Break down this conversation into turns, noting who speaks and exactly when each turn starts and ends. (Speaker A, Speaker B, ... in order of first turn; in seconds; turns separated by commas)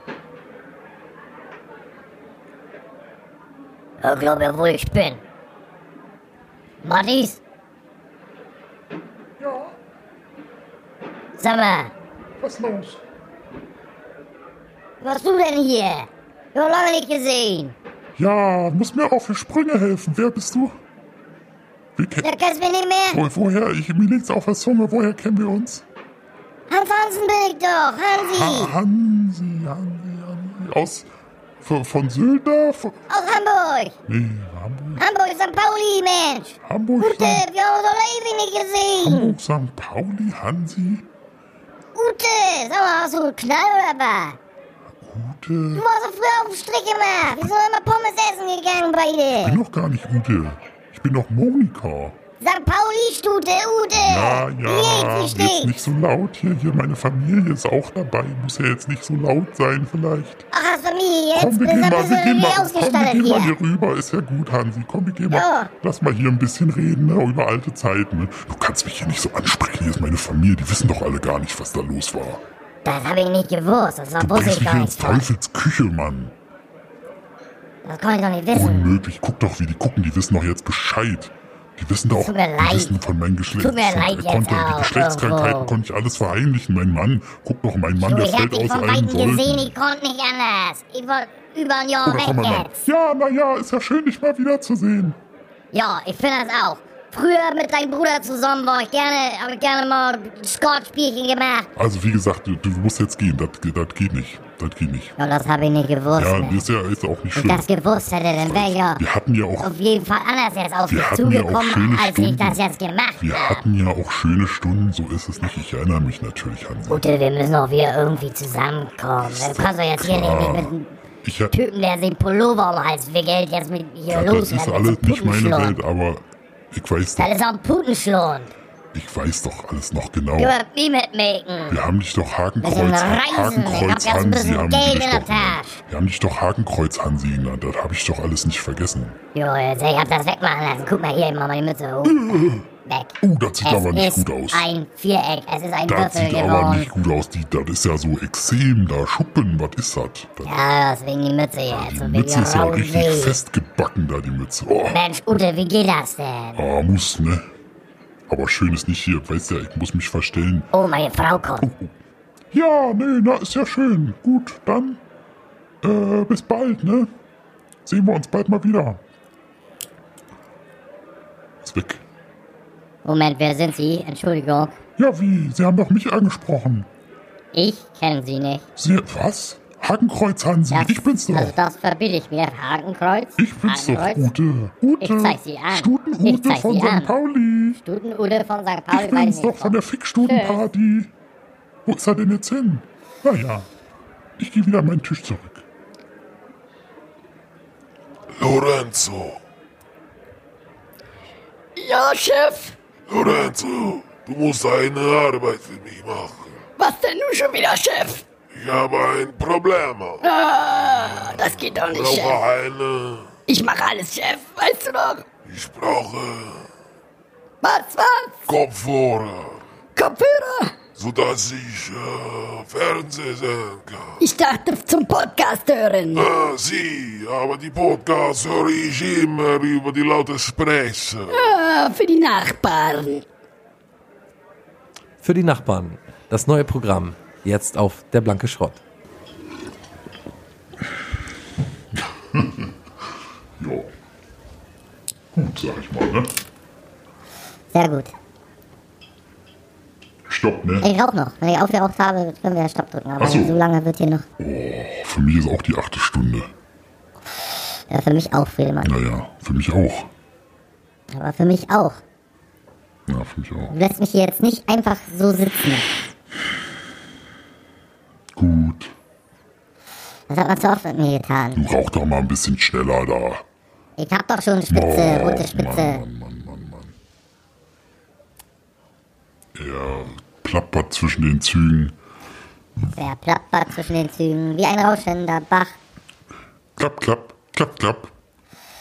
Speaker A: 4.0-5.2, Speaker A: 6.8-7.4, Speaker B: 9.4-9.7, Speaker A: 11.4-11.9, Speaker B: 12.4-13.0, Speaker A: 15.0-17.7, Speaker B: 18.2-20.8, Speaker B: 22.0-22.3, Speaker A: 22.2-23.2, Speaker B: 23.1-25.8, Speaker A: 26.7-28.7, Speaker B: 28.2-31.1, Speaker B: 31.6-33.0, Speaker A: 33.1-34.0, Speaker B: 34.1-35.0, Speaker A: 35.0-39.4, Speaker B: 36.7-37.5, Speaker B: 39.0-41.1, Speaker A: 42.0-44.4, Speaker B: 45.0-45.9, Speaker A: 45.8-49.6, Speaker B: 49.3-52.2, Speaker A: 52.4-55.7, Speaker B: 54.0-60.5, Speaker A: 60.5-63.5, Speaker B: 61.4-72.4, Speaker A: 65.3-65.7, Speaker A: 72.8-75.2, Speaker B: 74.2-76.3, Speaker A: 77.8-78.9, Speaker B: 78.5-89.7, Speaker A: 82.1-83.0, Speaker A: 83.6-85.8, Speaker A: 88.0-92.9, Speaker B: 92.1-95.2, Speaker A: 95.7-101.7, Speaker B: 101.8-105.2, Speaker A: 105.2-106.6, Speaker B: 106.1-107.7, Speaker A: 107.3-109.0, Speaker B: 108.3-109.7, Speaker A: 109.6-113.6, Speaker B: 110.9-112.7, Speaker B: 113.2-117.1, Speaker A: 116.9-120.9, Speaker B: 119.2-120.7, Speaker B: 121.2-121.5, Speaker A: 121.5-125.8, Speaker B: 124.1-127.3, Speaker A: 127.2-128.5, Speaker B: 128.9-130.6, Speaker A: 130.4-131.8, Speaker B: 131.7-139.2, Speaker A: 132.6-135.7, Speaker A: 139.3-142.2, Speaker B: 142.1-142.7, Speaker A: 142.8-146.9, Speaker B: 143.2-144.7, Speaker B: 145.9-150.6, Speaker A: 150.4-153.4, Speaker B: 151.7-155.0, Speaker A: 154.9-156.6, Speaker B: 156.6-157.5, Speaker B: 158.3-160.7, Speaker A: 160.7-161.7, Speaker B: 161.6-161.9, Speaker B: 162.5-165.0, Speaker B: 165.8-167.1, Speaker B: 167.9-169.0, Speaker B: 171.6-172.0, Speaker A: 173.1-174.8, Speaker B: 175.0-176.9, Speaker A: 177.5-178.6, Speaker B: 178.8-181.6, Speaker A: 180.7-184.2, Speaker B: 183.4-187.8, Speaker A: 185.0-187.1, Speaker A: 187.9-190.7, Speaker B: 188.9-191.1, Speaker B: 191.9-193.7, Speaker B: 194.4-195.6, Speaker C: 198.4-199.4, Speaker D: 201.8-202.8, Speaker C: 203.1-206.6, Speaker D: 206.8-208.2, Speaker C: 208.6-210.2, Speaker D: 210.2-212.4, Speaker C: 211.9-213.3, Speaker D: 213.5-215.2, Speaker C: 215.5-216.7, Speaker D: 217.6-218.4, Speaker C: 218.5-219.6, Speaker D: 219.9-220.8, Speaker C: 221.0-224.2, Speaker D: 224.2-226.3, Speaker C: 226.2-231.5, Speaker D: 231.3-233.2, Speaker E: 235.2-238.8, Speaker B: 242.3-242.7, Speaker B: 243.6-243.9, Speaker B: 245.3-246.3, Speaker A: 247.7-248.1, Speaker B: 250.3-250.9, Speaker A: 250.8-254.3, Speaker B: 253.2-253.6, Speaker B: 254.4-256.5, Speaker A: 257.9-258.9, Speaker B: 258.8-260.1, Speaker A: 261.1-262.0, Speaker B: 263.1-263.7, Speaker A: 263.7-265.9, Speaker B: 268.4-268.9, Speaker A: 270.3-271.6, Speaker B: 271.6-273.4, Speaker A: 274.0-276.0, Speaker B: 274.7-276.9, Speaker B: 279.6-282.0, Speaker A: 283.0-285.8, Speaker B: 286.8-288.1